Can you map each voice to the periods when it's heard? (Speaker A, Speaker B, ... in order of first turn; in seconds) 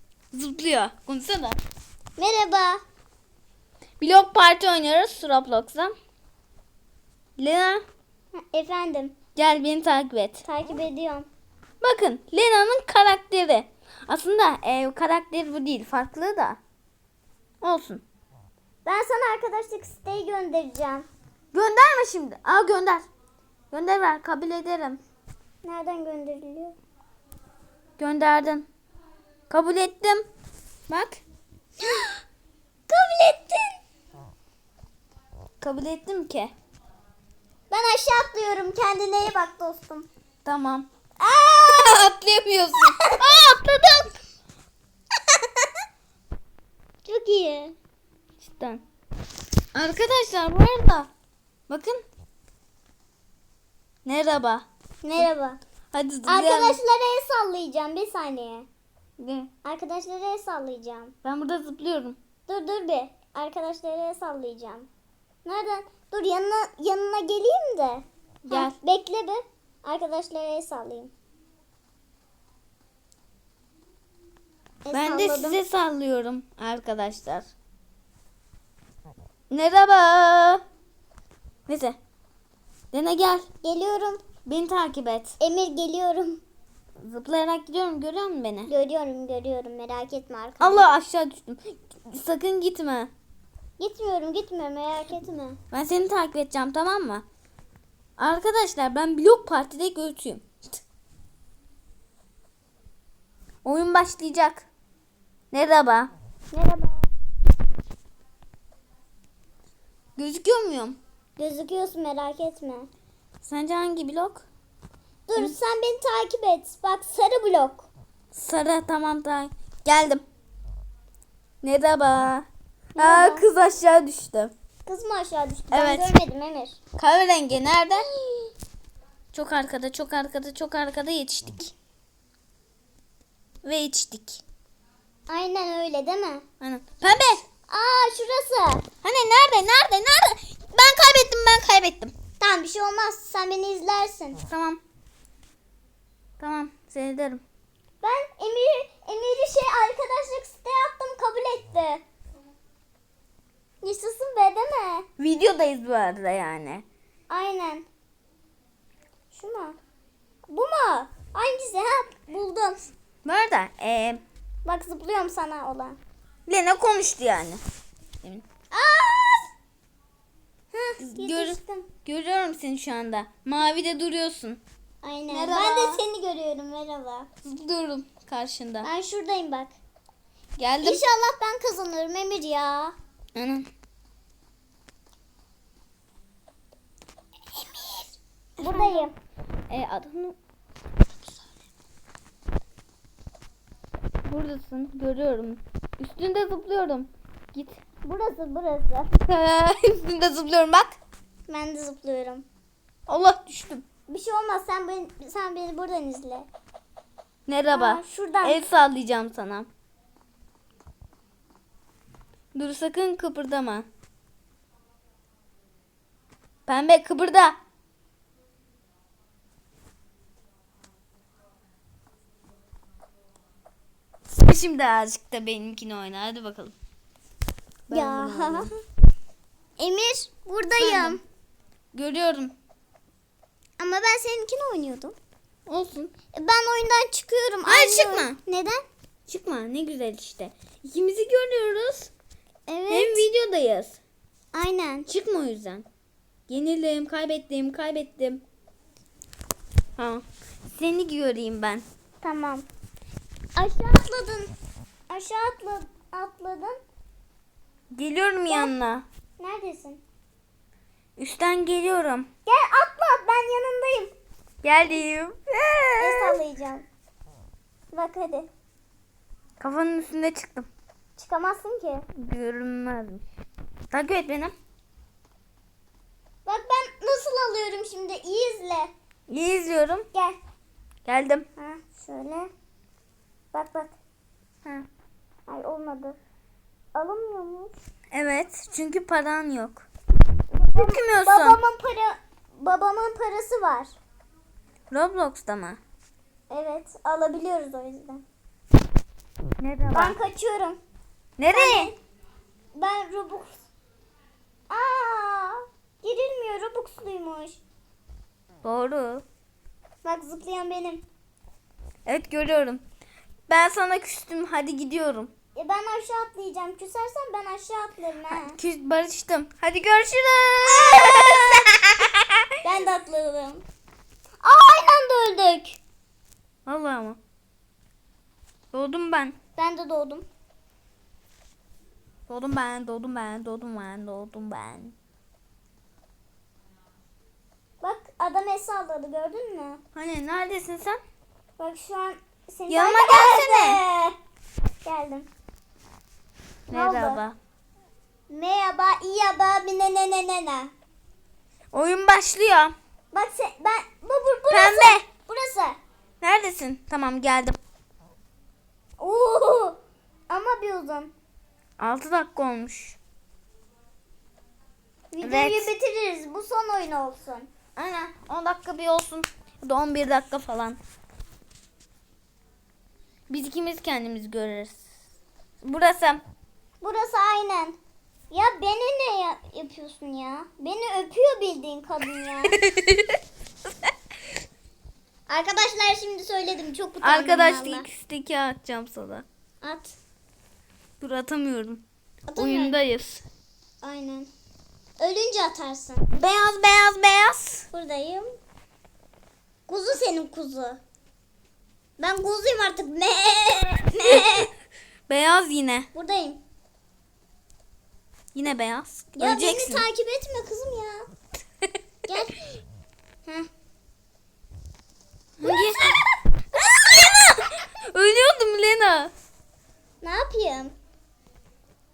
Speaker A: 0.3-1.6, 4.0-5.9, 7.4-7.8, 9.3-10.4, 11.8-16.6, 17.6-18.0, 21.5-23.1, 23.7-25.0, 28.0-28.7, 29.5-30.2, 30.9-31.2, 35.6-36.5, 40.5-40.9, 41.7-44.2, 48.4-48.8, 49.7-51.1, 51.7-52.0, 54.0-54.7, 55.9-56.8, 59.2-59.5, 61.2-62.2, 68.4-68.8, 74.9-77.5, 79.5-80.6, 81.7-82.0, 82.9-83.5, 84.5-85.4, 87.0-88.7, 90.6-93.1, 95.7-97.2, 98.2-100.5, 103.6-104.7, 105.5-106.1, 110.2-111.0, 113.4-114.5, 118.3-120.2, 121.6-122.5, 123.0-124.5, 125.7-126.1, 127.0-128.1, 129.3-131.7, 133.6-134.4, 136.6-137.4, 139.0-142.1, 144.5-144.8, 146.4-147.4, 155.2-156.8, 163.2-164.2, 166.5-167.6, 171.0-174.6, 175.3-176.0, 177.4-178.9, 180.6-181.0, 183.4-183.7, 187.8-188.0, 188.6-189.1, 189.7-190.4, 194.2-197.8, 199.3-201.0, 203.1-203.8, 207.5-209.7, 212.5-213.9, 216.7-217.6, 224.4-226.7, 227.9-228.7, 230.8-231.2, 231.9-232.5, 235.7-236.1, 237.7-238.4, 239.3-242.1, 242.9-244.0, 245.1-245.8, 246.5-248.4, 250.0-251.8, 257.9-259.1, 261.2-262.3, 264.6-266.4, 269.6-270.7, 272.2-273.2, 273.9-274.5, 279.3-280.1, 281.1-281.5, 288.1-289.9, 290.7-291.6, 294.9-295.8, 299.6-300.2, 301.4-301.9, 308.6-309.2, 312.1-312.8, 313.5-315.3, 318.3-322.2, 326.7-327.2, 328.7-329.4, 332.3-334.9, 339.9-341.0, 342.7-343.8, 346.7-347.4, 351.7-352.7, 354.5-355.0, 356.2-357.6, 361.8-363.0, 365.2-365.7, 367.8-370.8, 373.3-374.9, 375.6-376.2, 382.5-383.2, 387.0-389.2, 391.0-391.8, 392.4-393.2, 396.1-397.6, 403.9-404.5, 405.1-405.9, 408.3-409.9, 415.4-416.0, 416.6-419.1
Speaker B: 2.2-2.8, 8.3-9.2, 10.4-11.3, 18.9-21.1, 25.6-26.8, 31.8-32.2, 32.9-33.8, 37.7-40.1, 41.2-42.1, 45.3-45.7, 47.0-47.8, 55.0-55.6, 56.3-58.7, 59.6-61.1, 62.5-64.9, 65.5-71.1, 74.8-75.6, 83.6-84.2, 85.4-86.4, 88.7-90.9, 93.8-95.6, 106.5-107.1, 111.4-112.9, 115.3-117.9, 123.0-123.5, 124.9-126.8, 127.9-128.5, 135.3-136.4, 137.7-138.8, 142.4-144.4, 148.0-152.0, 153.8-155.1, 157.3-157.9, 159.3-159.8, 160.5-162.9, 164.7-166.0, 168.7-169.5, 170.7-171.9, 175.0-177.3, 178.8-179.8, 180.8-182.9, 188.6-189.1, 198.0-199.2, 201.5-202.5, 204.1-206.5, 207.7-208.6, 227.9-228.7, 229.8-231.2, 233.8-235.2, 236.3-238.8, 242.7-243.3, 244.5-245.1, 252.2-252.7, 253.6-254.5, 255.1-256.8, 258.5-258.7, 259.4-260.0, 262.5-264.1, 266.0-266.9, 267.9-268.5, 271.2-272.1, 276.5-278.9, 281.6-282.5, 283.5-284.0, 285.5-286.2, 286.9-287.8, 290.5-293.9, 296.5-298.2, 299.9-300.8, 301.5-302.0, 302.8-303.6, 304.7-307.6, 310.0-311.0, 315.6-318.6, 320.7-321.7, 322.6-323.6, 324.4-325.8, 329.6-330.3, 337.8-339.8, 341.6-344.1, 344.8-345.3, 346.7-347.2, 348.3-350.7, 353.1-355.8, 359.0-361.1, 365.1-367.5, 376.8-377.8, 378.3-382.6, 385.3-387.9, 389.6-390.0, 392.3-392.8, 393.8-394.3, 395.0-396.1, 397.7-398.4, 399.7-400.8, 402.0-404.5, 405.9-406.4, 409.2-411.1, 412.1-412.6, 415.4-416.1, 420.0-420.8